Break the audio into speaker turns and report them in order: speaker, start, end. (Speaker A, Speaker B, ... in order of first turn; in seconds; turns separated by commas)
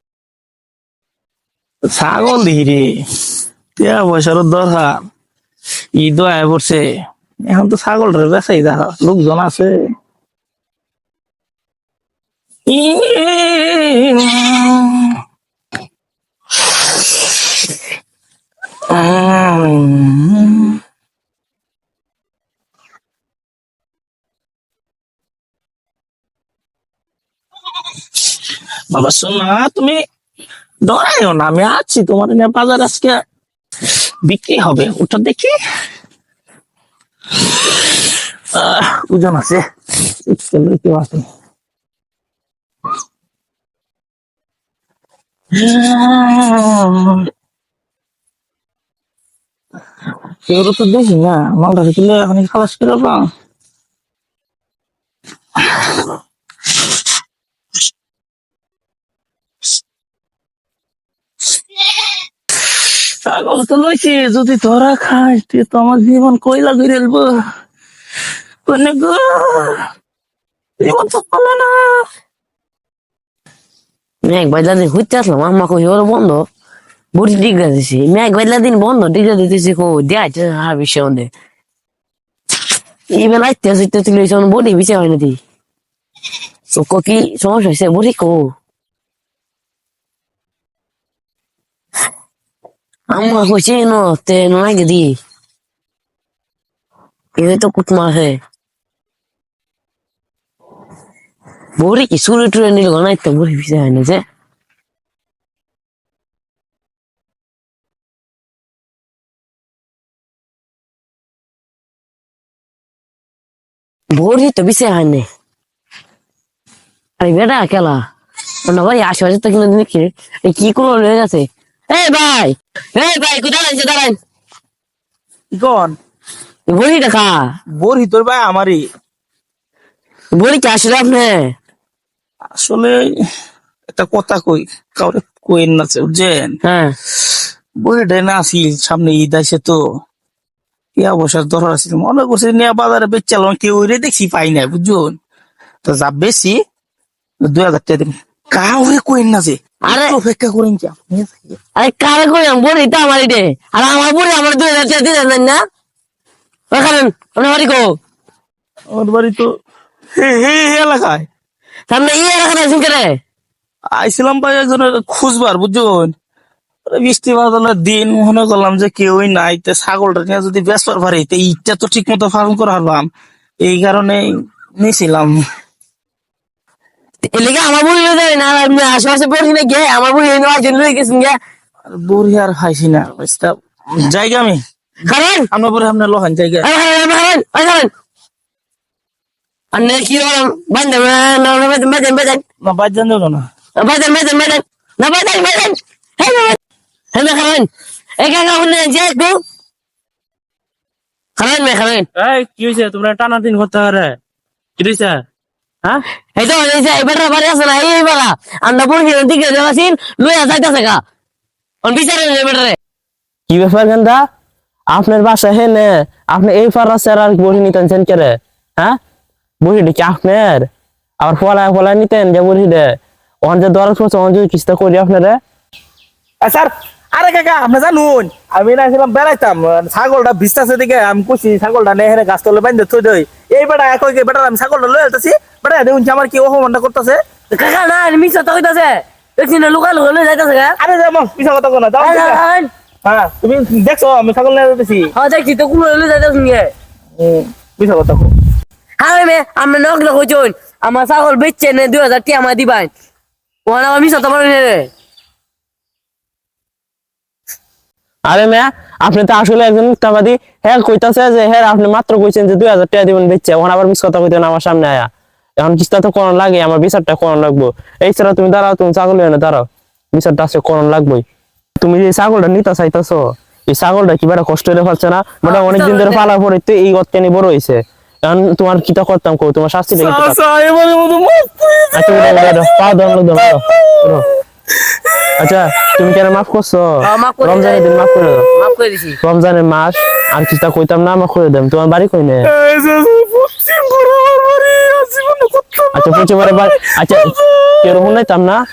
Speaker A: 1.9-2.9, Speaker A: 3.8-5.0, Speaker A: 6.0-6.8, Speaker A: 7.5-9.7, Speaker A: 12.7-15.2, Speaker A: 18.9-20.8, Speaker A: 28.9-30.0, Speaker A: 30.9-33.2, Speaker A: 34.2-35.5, Speaker A: 38.5-39.6, Speaker A: 40.3-41.3, Speaker A: 45.5-47.2, Speaker A: 50.5-53.3, Speaker A: 63.3-67.3, Speaker A: 68.7-69.8, Speaker A: 70.8-72.0, Speaker B: 74.2-76.5, Speaker B: 77.1-81.3, Speaker B: 83.1-85.4, Speaker B: 86.7-88.5, Speaker B: 93.1-95.2, Speaker B: 97.4-98.4, Speaker B: 101.8-104.2, Speaker B: 114.1-115.3, Speaker B: 117.2-118.0, Speaker B: 118.7-124.2, Speaker A: 125.5-126.0, Speaker B: 126.7-127.4, Speaker A: 127.8-128.8, Speaker B: 130.3-131.5, Speaker A: 132.6-133.0, Speaker A: 133.9-136.5, Speaker B: 136.6-136.9, Speaker A: 137.8-139.8, Speaker A: 141.0-145.2, Speaker A: 145.8-146.6, Speaker A: 147.5-151.6, Speaker B: 149.9-150.1, Speaker B: 151.8-155.6, Speaker B: 156.7-157.9, Speaker A: 158.9-159.5, Speaker A: 160.2-161.3, Speaker B: 161.9-163.2, Speaker A: 163.9-166.1, Speaker A: 166.9-173.1, Speaker A: 173.6-174.2, Speaker A: 174.8-175.3, Speaker B: 177.3-181.4, Speaker A: 181.9-184.6, Speaker B: 185.1-185.5, Speaker A: 185.5-186.7, Speaker B: 186.6-187.9, Speaker B: 189.7-192.4, Speaker A: 192.6-193.5, Speaker B: 193.8-196.6, Speaker B: 197.1-197.7, Speaker B: 198.2-199.4, Speaker B: 201.4-202.1, Speaker C: 202.2-204.0, Speaker C: 204.8-205.1, Speaker B: 206.3-211.0, Speaker B: 211.8-212.8, Speaker C: 213.5-214.2, Speaker C: 214.9-219.0, Speaker C: 219.6-220.7, Speaker C: 221.2-222.9, Speaker C: 223.4-225.4, Speaker A: 226.4-237.2, Speaker B: 237.5-240.8, Speaker A: 240.8-242.4, Speaker B: 242.0-242.7, Speaker A: 243.1-245.1, Speaker B: 245.1-246.7, Speaker A: 247.2-248.3, Speaker B: 249.0-252.9, Speaker B: 253.7-254.9, Speaker C: 258.3-265.1, Speaker C: 265.6-271.2, Speaker C: 271.8-280.4, Speaker B: 275.4-276.3, Speaker A: 279.9-284.2, Speaker C: 281.9-284.3, Speaker A: 284.8-285.9, Speaker C: 285.4-286.9, Speaker B: 287.0-289.2, Speaker C: 287.4-288.5, Speaker C: 289.2-292.5, Speaker A: 292.5-298.1, Speaker C: 295.9-298.6